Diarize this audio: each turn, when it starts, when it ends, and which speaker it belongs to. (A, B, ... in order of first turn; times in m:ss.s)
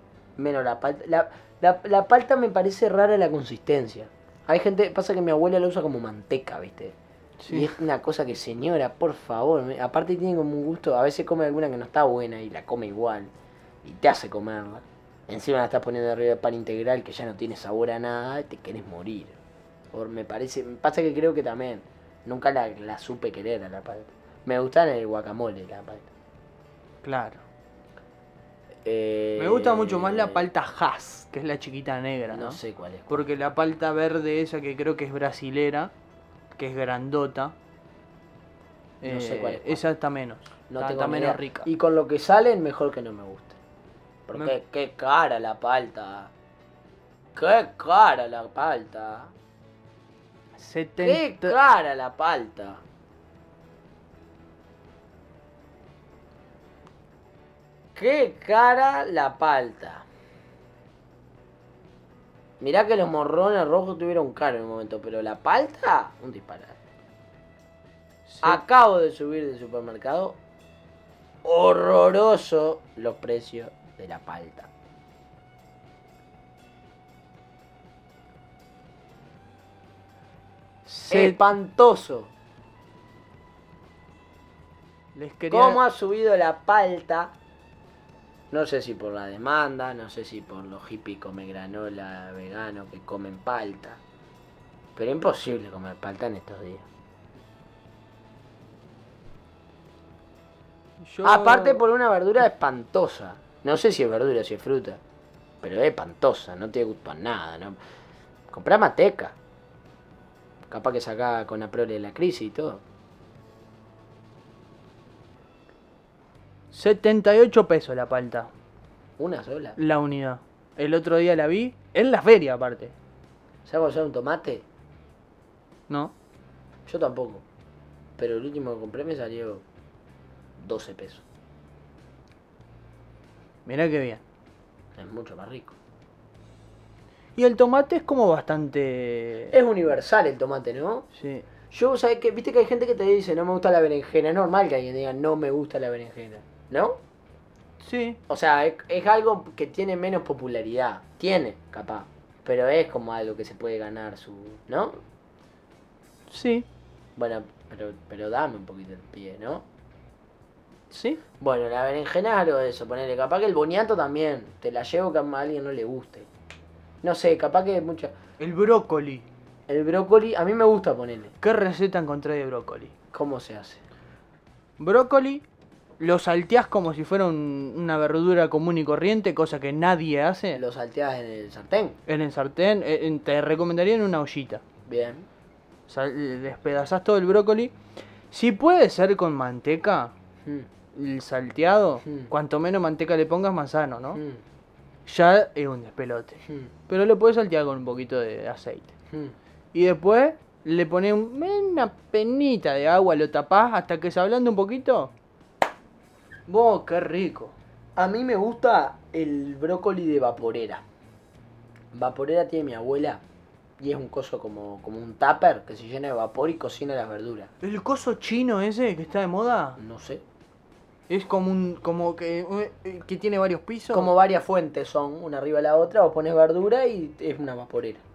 0:00.4-0:07.0 A
0:07.4-0:07.7 B
0:07.5-0:13.3 A
0:13.8-0:19.4 A
0:19.9-0:26.1 A
0:27.0-0:27.4 B
0:28.8-0:30.4 A
0:29.4-0:35.9 B
0:32.3-0:33.2 A
0:36.6-0:37.5 B
0:39.0-0:41.7 B
0:39.0-0:39.8 A
0:40.7-0:43.6 A
0:44.3-0:46.3 A
0:47.3-0:49.3 A
0:50.6-0:51.6 B
0:51.0-0:52.8 A
0:57.9-1:00.0 A
1:02.6-1:06.8 A
1:08.3-1:08.6 B
1:08.4-1:10.4 A
1:11.4-1:14.7 A
1:20.8-1:21.5 B
1:21.1-1:22.3 A
1:25.1-1:25.8 B
1:25.5-1:27.3 A
1:28.5-1:34.0 A
1:35.0-1:36.8 A
1:41.0-1:41.8 B
1:41.2-1:45.0 A
1:45.6-1:47.8 A
1:48.5-1:49.3 A
1:50.7-1:52.8 A
1:56.7-1:58.5 B
1:59.2-1:59.8 A
1:59.8-2:02.9 B
2:03.6-2:04.6 A
2:05.9-2:06.1 B
2:06.9-2:07.4 A
2:08.2-2:09.6 A
2:10.6-2:11.2 A
2:13.6-2:14.2 B
2:15.0-2:15.7 A
2:17.4-2:19.5 B
2:19.5-2:21.1 A
2:21.2-2:21.4 B
2:21.7-2:27.0 A
2:27.8-2:28.2 B
2:28.3-2:35.0 A
2:36.3-2:36.7 B
2:37.2-2:39.6 A
2:40.9-2:41.2 B
2:41.4-2:46.3 A
2:47.0-2:48.1 A
2:48.4-2:49.3 B
2:49.7-2:51.3 A
2:51.4-2:52.9 B
2:53.1-2:53.8 A
2:54.8-2:55.4 B
2:56.0-3:00.6 B
3:00.5-3:02.0 A
3:02.1-3:04.6 B
3:04.8-3:05.3 A
3:05.9-3:07.7 B
3:08.3-3:10.1 B
3:10.9-3:14.2 B
3:12.0-3:12.3 A
3:14.1-3:14.4 A
3:15.0-3:18.9 B
3:19.7-3:25.1 B
3:26.5-3:27.5 B
3:28.0-3:30.8 A
3:31.9-3:33.2 A
3:33.8-3:37.5 A
3:37.6-3:39.8 B
3:39.8-3:40.2 A
3:41.1-3:44.1 B
3:43.9-3:48.0 A